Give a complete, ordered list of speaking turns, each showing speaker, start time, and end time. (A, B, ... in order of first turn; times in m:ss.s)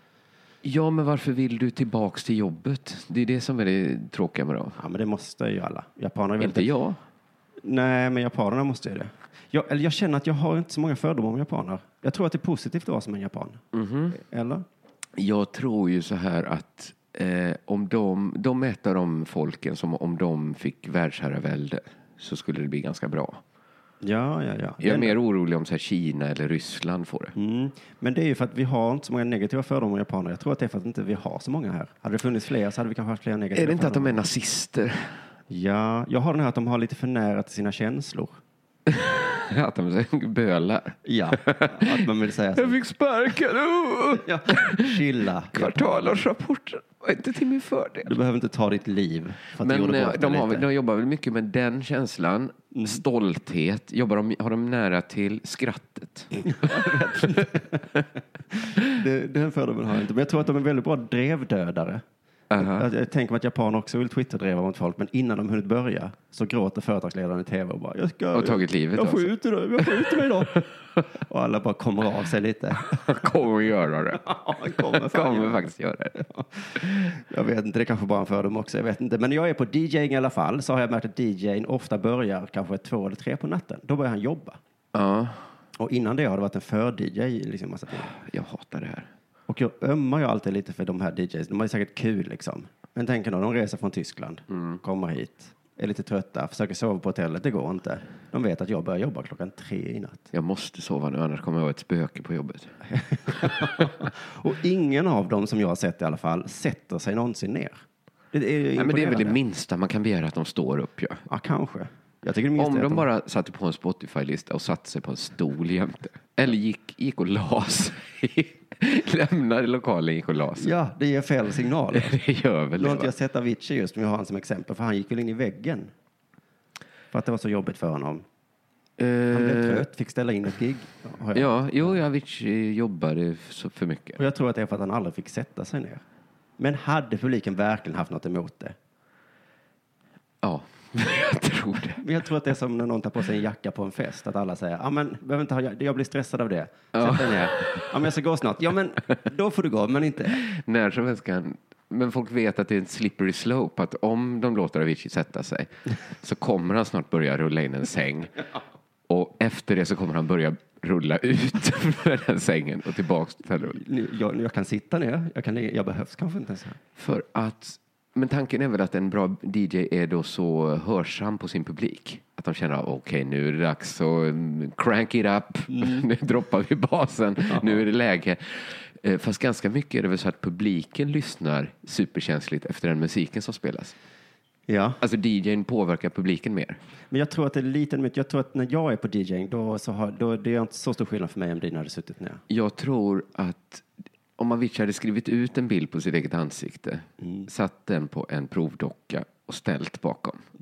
0:00.6-0:04.8 A
0:04.8-0:06.7 B
0:06.4-0:07.0 A
0:07.6-0:14.6 B
0:13.7-0:14.2 A
0:15.2-0:23.4 A
0:24.0-0:25.2 B
0:24.8-0:27.3 A
0:27.4-0:34.2 B
0:33.6-0:35.2 A
0:35.5-0:38.4 B
0:38.9-0:42.0 A
0:41.0-0:42.8 B
0:42.5-0:48.1 A
0:44.2-0:46.2 B
0:48.0-0:50.7 B
0:49.6-0:57.4 A
0:52.7-0:53.0 B
0:56.4-0:57.9 B
0:58.6-1:02.0 B
1:02.5-1:02.9 A
1:02.6-1:13.1 B
1:08.3-1:10.6 A
1:12.8-1:16.2 A
1:14.2-1:15.6 B
1:16.2-1:24.6 B
1:24.9-1:25.5 A
1:25.8-1:28.1 B
1:27.9-1:29.1 A
1:29.5-1:40.3 B
1:34.5-1:34.8 A
1:40.3-1:42.8 A
1:43.2-1:47.8 B
1:43.3-1:43.8 A
1:48.3-1:49.4 B
1:48.8-1:51.2 A
1:51.3-1:53.1 B
1:52.6-2:00.7 A
2:00.6-2:02.2 B
2:01.9-2:03.1 A
2:02.8-2:05.9 B
2:07.1-2:08.2 B
2:09.0-2:09.9 A
2:09.3-2:12.0 B
2:11.3-2:14.2 A
2:14.2-2:16.0 B
2:16.6-2:18.8 B
2:20.4-2:22.0 A
2:22.0-2:30.4 B
2:26.9-2:27.9 A
2:30.4-2:38.4 A
2:39.1-2:43.8 A
2:43.6-2:46.8 B
2:47.0-3:03.9 A
3:04.7-3:05.0 B
3:05.0-3:06.8 A
3:07.1-3:12.4 B
3:12.5-3:13.9 A
3:14.4-3:20.4 A
3:17.2-3:17.5 B